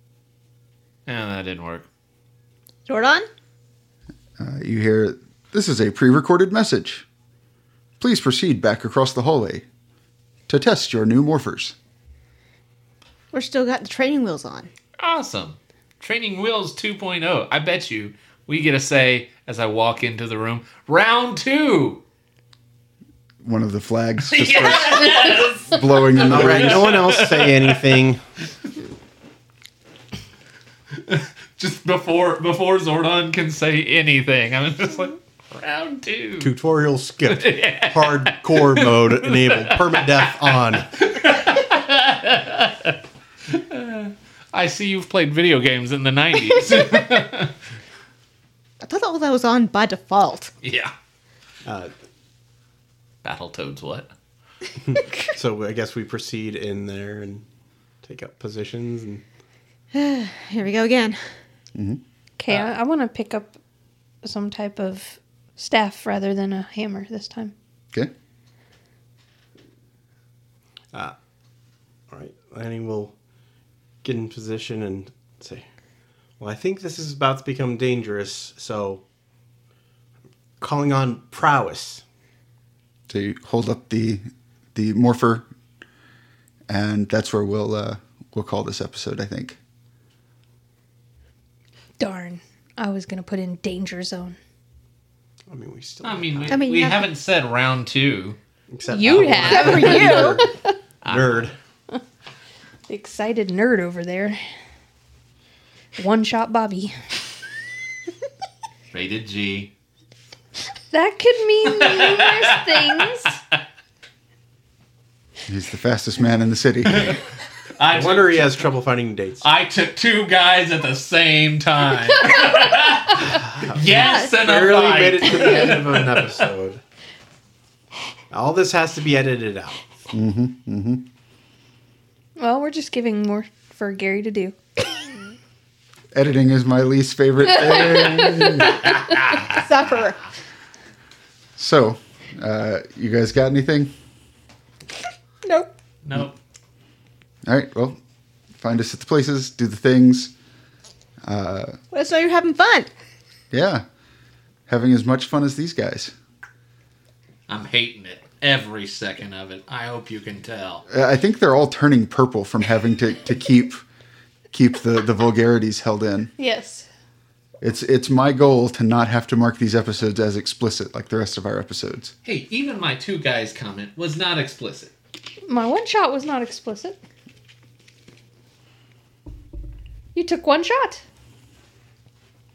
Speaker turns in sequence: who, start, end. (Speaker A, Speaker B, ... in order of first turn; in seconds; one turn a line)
Speaker A: 1.1-1.9
Speaker B: 2.9-3.3
Speaker C: 4.4-7.0
Speaker C: 8.0-9.7
Speaker C: 10.5-11.8
Speaker B: 13.3-14.7
Speaker A: 15.0-22.0
Speaker C: 23.4-27.0
Speaker A: 24.3-28.0
Speaker D: 26.2-28.2
Speaker A: 30.9-36.5
Speaker D: 36.4-41.0
Speaker A: 37.3-47.6
Speaker B: 48.8-50.5
Speaker A: 50.6-50.9
Speaker D: 51.6-51.9
Speaker A: 53.2-54.1
Speaker D: 54.9-57.4
Speaker D: 58.0-59.2
Speaker B: 59.9-61.2
Speaker C: 61.8-62.0
Speaker E: 62.4-63.5
Speaker E: 64.2-67.5
Speaker D: 72.1-73.1
Speaker D: 74.0-75.7
Speaker D: 76.4-79.0
Speaker D: 80.6-82.0
Speaker C: 83.1-85.5
Speaker C: 86.7-89.6
Speaker E: 92.0-94.4
Speaker D: 95.5-96.6
Speaker A: 96.0-98.4
Speaker B: 96.5-97.1
Speaker D: 98.7-100.5
Speaker E: 98.9-100.4
Speaker A: 98.9-100.2
Speaker B: 99.4-100.7
Speaker A: 101.0-101.5
Speaker D: 101.0-101.5
Speaker E: 102.9-104.4
Speaker E: 106.0-107.0
Speaker A: 108.9-109.7
Speaker E: 110.9-113.3
Speaker A: 111.6-113.6
Speaker C: 115.5-117.2
Speaker A: 117.8-118.7
Speaker D: 117.9-119.5
Speaker A: 119.4-126.5
Speaker D: 123.4-126.8
Speaker E: 123.9-124.3
Speaker D: 128.3-129.8
Speaker C: 130.1-131.1
Speaker E: 132.4-134.6
Speaker C: 136.1-138.9
Speaker A: 138.8-139.6
Speaker B: 139.6-140.3
Speaker C: 141.6-143.9
Speaker B: 145.4-145.7
Speaker A: 146.0-146.3
Speaker C: 147.5-148.0
Speaker C: 148.6-150.3
Speaker C: 151.2-151.8
Speaker B: 151.9-152.9
Speaker C: 153.5-153.8
Speaker C: 154.7-156.1
Speaker A: 157.5-160.8
Speaker C: 160.9-163.8
Speaker C: 164.5-166.3
Speaker E: 166.4-166.9
Speaker C: 167.6-172.1
Speaker A: 172.2-174.9
Speaker E: 175.5-177.0
Speaker E: 180.2-181.0